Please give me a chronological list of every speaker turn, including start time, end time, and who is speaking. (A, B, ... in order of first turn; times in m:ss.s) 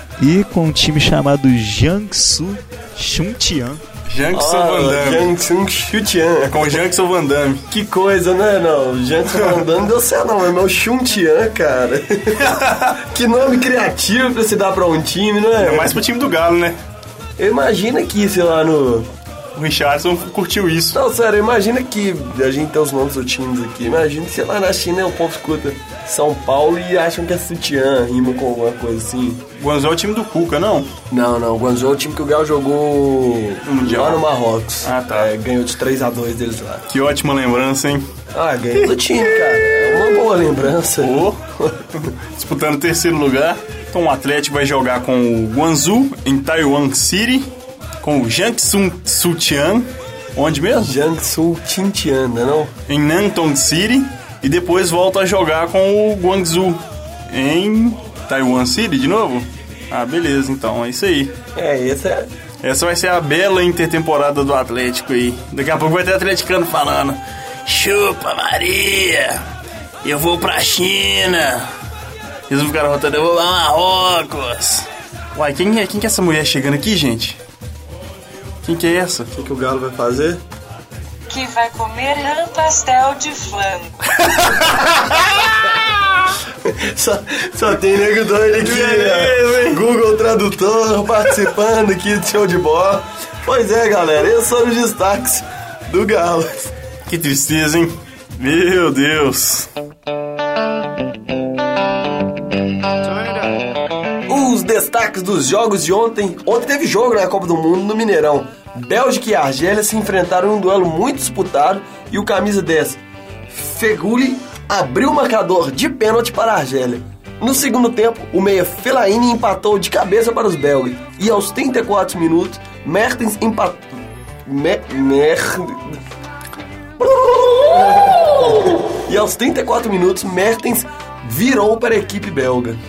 0:00.2-0:03.8 A
0:04.1-0:05.3 B
0:04.3-0:06.8 C
0:06.4-0:07.7 B
0:07.7-0:16.0 C
0:12.5-0:12.8 B
0:15.6-0:16.8 B
0:17.4-0:19.1 C
0:19.5-0:21.0 B
0:20.9-0:29.4 C
0:29.6-0:30.9 B
0:31.1-0:36.9 C
0:33.6-0:34.3 B
0:34.8-0:35.3 B
0:36.9-0:38.1 B
0:38.3-0:41.8 C
0:38.8-0:40.0 B
0:41.0-0:41.4 B
0:41.9-0:47.5 B
0:48.0-0:51.0 B
0:50.8-0:52.7 C
0:52.9-1:01.4 B
1:01.6-1:02.3 C
1:02.6-1:09.5 B
1:10.0-1:11.7 B
1:12.5-1:17.4 B
1:18.6-1:19.3 B
1:19.3-1:20.4 C
1:21.3-1:24.0 D
1:26.6-1:36.7 C
1:28.6-1:29.8 B
1:37.1-1:39.7 B
1:44.3-2:03.9 C
2:04.5-2:06.0 C
2:07.0-2:12.8 C